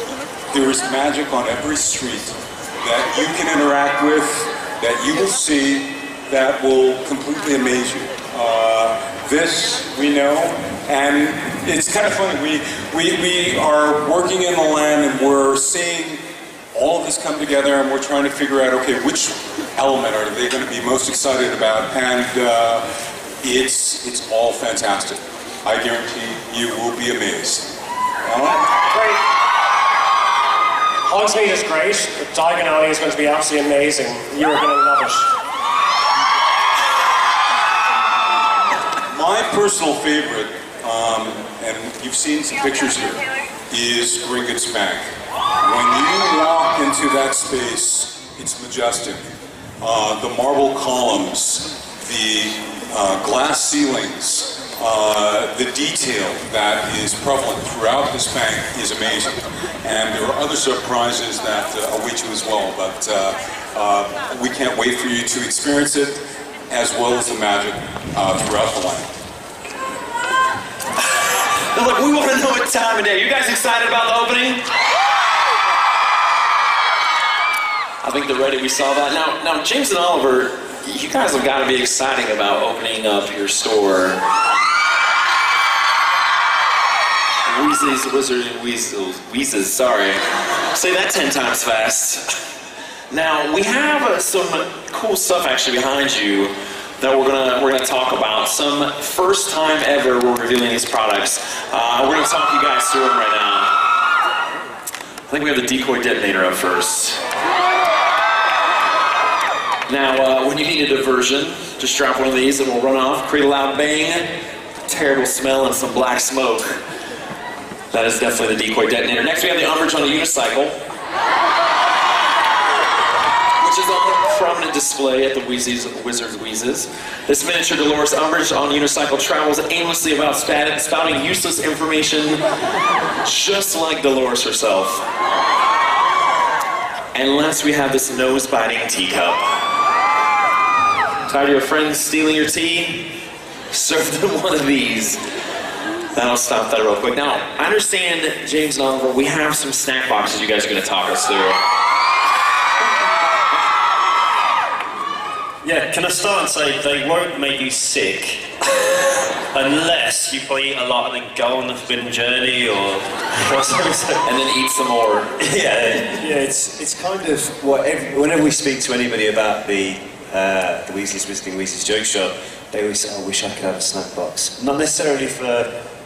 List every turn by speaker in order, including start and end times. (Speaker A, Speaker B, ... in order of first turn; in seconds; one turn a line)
Speaker A: 0.5-16.2
Speaker A: 16.7-22.9
Speaker A: 23.4-27.7
Speaker A: 28.2-28.7
Speaker B: 28.9-29.2
Speaker B: 31.1-35.3
Speaker A: 39.1-45.1
Speaker A: 45.6-49.2
Speaker A: 49.8-69.1
Speaker C: 71.2-74.6
Speaker C: 78.0-84.2
Speaker C: 87.5-90.2
Speaker C: 90.7-92.2
Speaker C: 93.1-103.7
Speaker C: 105.3-107.2
Speaker C: 109.9-114.3
Speaker C: 114.9-116.8
Speaker C: 117.9-120.7
Speaker C: 123.6-132.4
Speaker C: 133.2-135.0
Speaker C: 137.1-139.4
Speaker C: 141.3-143.1
Speaker C: 143.7-145.2
Speaker C: 146.1-151.6
Speaker D: 155.6-158.4
Speaker D: 159.5-164.2
Speaker C: 164.2-165.3
Speaker D: 165.4-167.1
Speaker E: 166.5-175.7